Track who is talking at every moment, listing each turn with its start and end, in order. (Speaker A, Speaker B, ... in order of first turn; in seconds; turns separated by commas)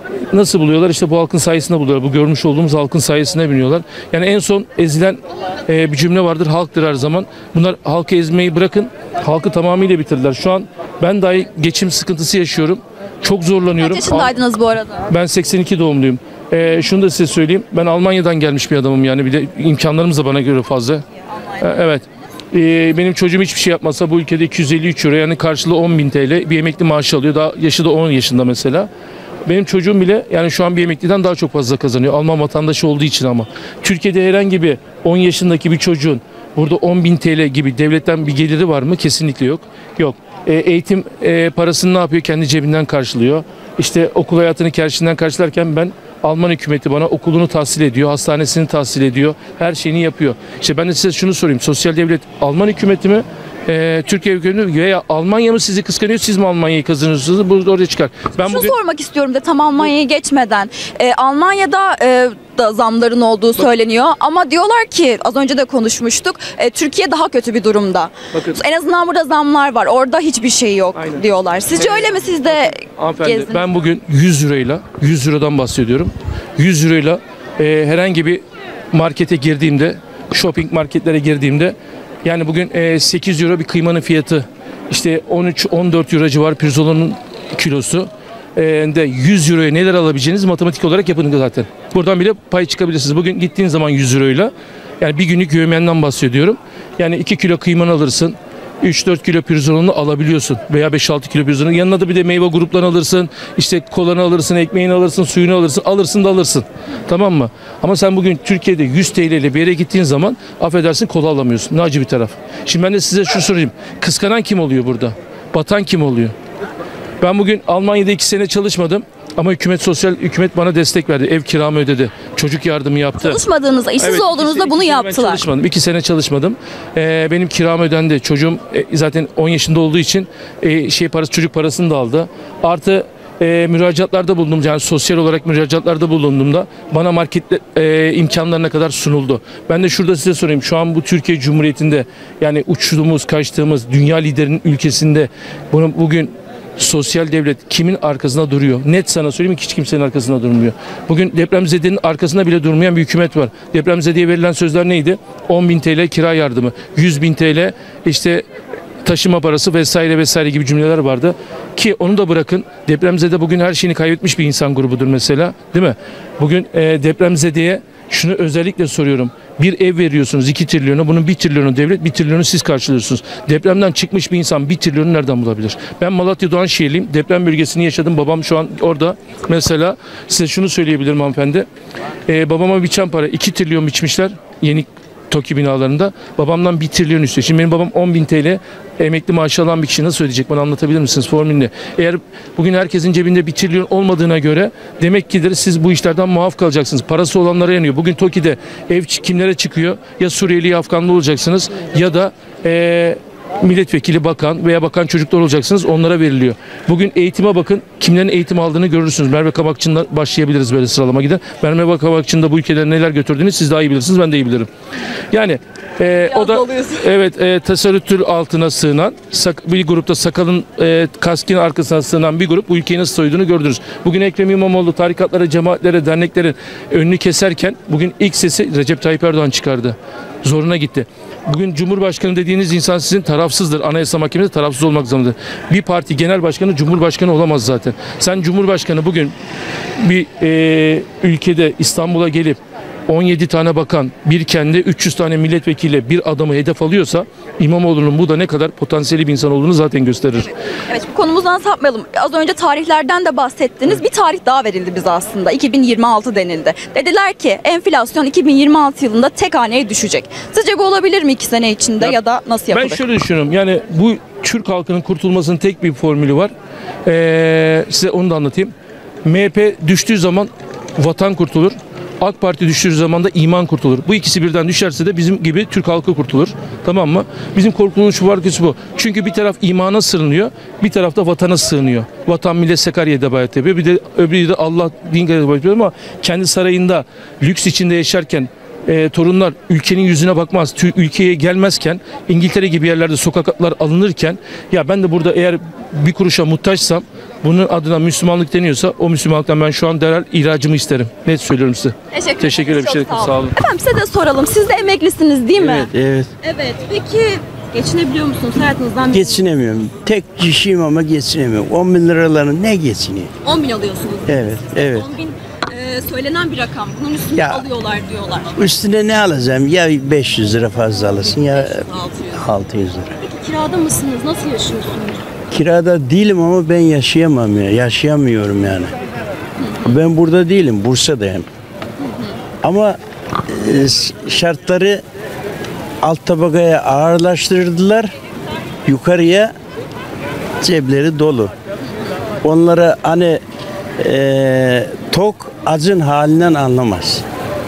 Speaker A: 0.3-14.3, Speaker B: 13.8-15.0, Speaker A: 15.1-21.0, Speaker A: 21.6-28.9, Speaker A: 29.4-58.7, Speaker B: 58.4-73.6, Speaker A: 73.0-116.3, Speaker A: 117.2-123.4, Speaker B: 123.2-125.4, Speaker A: 124.0-158.4, Speaker A: 159.0-181.7, Speaker A: 182.3-214.7, Speaker A: 215.3-239.3, Speaker B: 216.3-217.1, Speaker A: 240.0-250.5, Speaker B: 250.9-263.0, Speaker A: 262.7-266.5, Speaker A: 267.0-268.7, Speaker A: 269.2-303.5, Speaker B: 302.1-305.9, Speaker C: 305.6-306.3, Speaker B: 306.4-309.5, Speaker C: 309.1-313.3, Speaker B: 313.4-318.6, Speaker C: 314.2-315.1, Speaker C: 317.3-317.7, Speaker C: 318.5-323.1, Speaker B: 321.4-322.4, Speaker B: 323.2-325.3, Speaker C: 325.5-328.9, Speaker C: 329.8-331.4, Speaker C: 332.6-335.0, Speaker C: 336.0-338.1, Speaker C: 338.9-339.5, Speaker C: 340.6-341.5, Speaker C: 342.4-343.4, Speaker C: 344.0-347.2